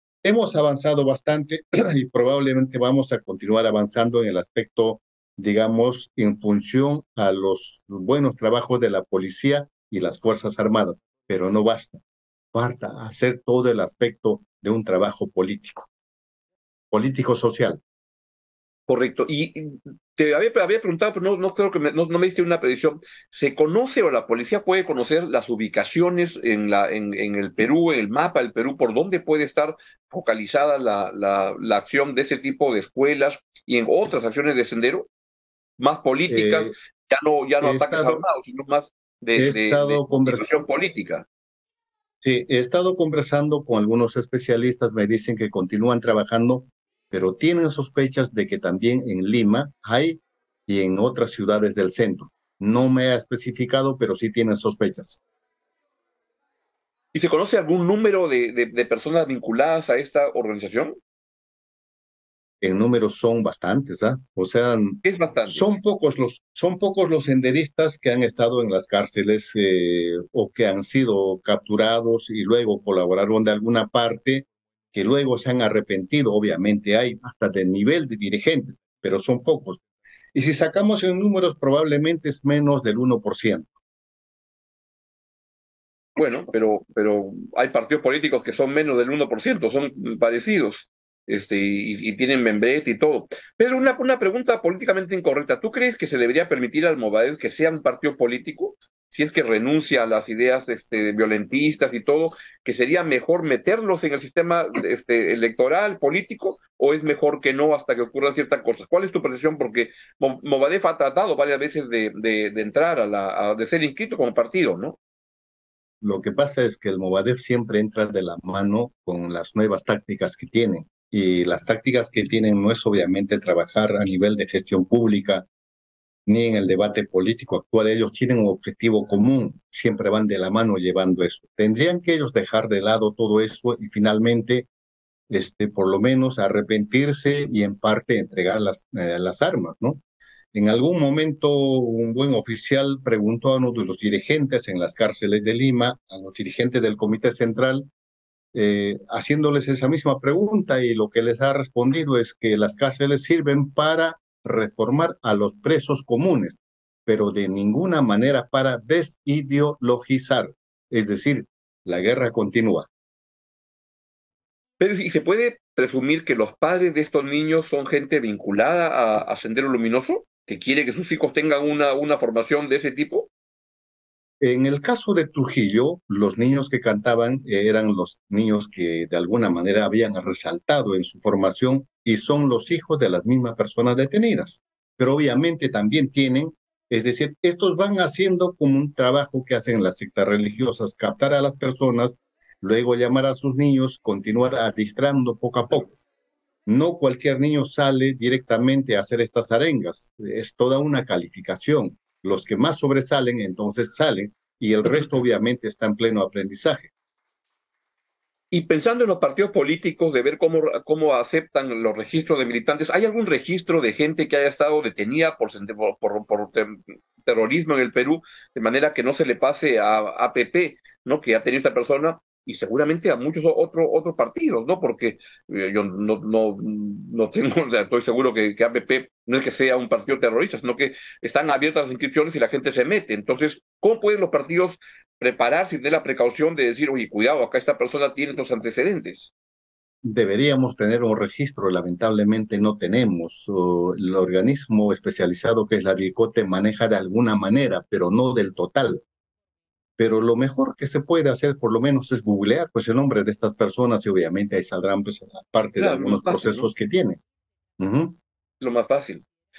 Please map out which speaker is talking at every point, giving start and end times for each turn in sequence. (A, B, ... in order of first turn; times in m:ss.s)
0:00.2-0:12.0 A
0:12.5-0:15.9 A
0:16.9-0:17.8 A
0:18.9-0:35.1 B
0:35.8-0:41.3 B
0:36.3-0:36.8 A
0:37.6-0:38.2 A
0:39.4-0:40.6 A
0:42.2-0:55.2 A
0:57.1-1:01.0 B
1:02.6-1:19.8 A
1:05.0-1:05.8 B
1:20.3-1:23.7 A
1:26.2-1:55.0 B
1:56.0-2:05.5 A
2:06.3-2:14.7 A
2:15.3-2:20.0 A
2:20.5-2:27.9 A
2:28.5-2:42.9 A
2:44.8-2:53.3 B
2:54.4-3:15.9 A
3:16.7-3:26.9 A
3:24.9-3:25.2 B
3:28.5-3:59.3 B
4:00.0-4:09.0 A
4:10.0-4:17.2 A
4:15.8-4:16.7 B
4:17.8-4:18.2 A
4:18.6-4:19.2 B